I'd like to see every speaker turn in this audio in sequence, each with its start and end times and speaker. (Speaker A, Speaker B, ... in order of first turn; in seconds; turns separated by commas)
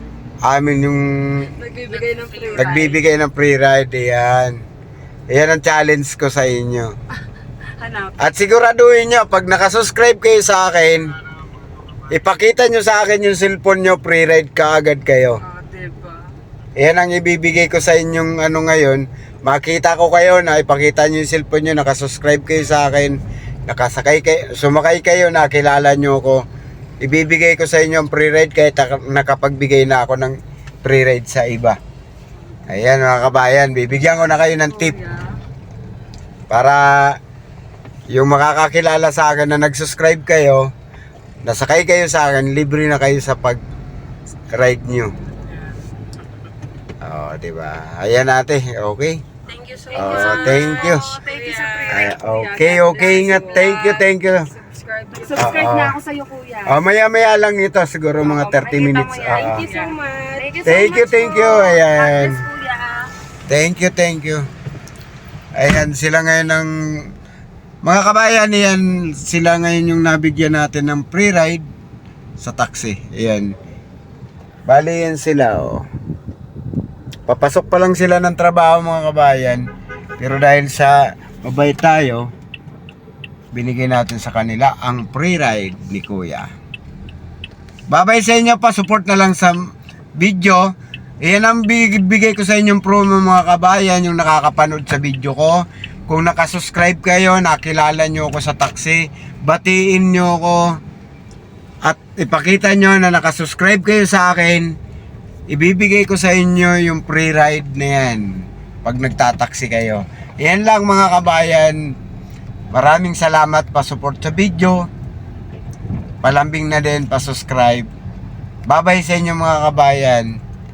Speaker A: 0.4-1.5, Speaker B: 1.6-3.0, Speaker C: 1.9-3.0, Speaker A: 2.5-4.5, Speaker A: 5.3-6.9, Speaker B: 7.8-8.3, Speaker A: 8.2-11.1, Speaker A: 12.1-15.4, Speaker B: 15.4-16.3, Speaker A: 16.8-26.4, Speaker A: 27.0-31.8, Speaker B: 32.3-32.6, Speaker A: 32.7-35.0, Speaker B: 34.4-35.4, Speaker A: 36.5-37.2, Speaker A: 38.1-40.7, Speaker A: 41.4-43.6, Speaker A: 44.5-45.1, Speaker C: 45.4-45.8, Speaker A: 47.0-49.2, Speaker C: 49.5-52.1, Speaker B: 49.9-54.0, Speaker A: 49.9-51.0, Speaker A: 51.9-54.5, Speaker C: 52.8-55.7, Speaker B: 55.1-56.8, Speaker A: 55.4-56.0, Speaker A: 56.7-59.6, Speaker B: 58.2-63.1, Speaker C: 59.3-60.6, Speaker A: 60.6-62.4, Speaker A: 63.5-64.4, Speaker A: 65.5-66.7, Speaker A: 67.8-71.6, Speaker A: 72.4-73.5, Speaker A: 74.7-75.8, Speaker A: 77.3-79.7, Speaker A: 80.2-82.3, Speaker A: 83.5-86.5, Speaker A: 87.9-100.7, Speaker A: 101.8-104.8, Speaker A: 105.5-111.9, Speaker A: 112.7-114.9, Speaker A: 116.2-117.9, Speaker A: 118.7-120.4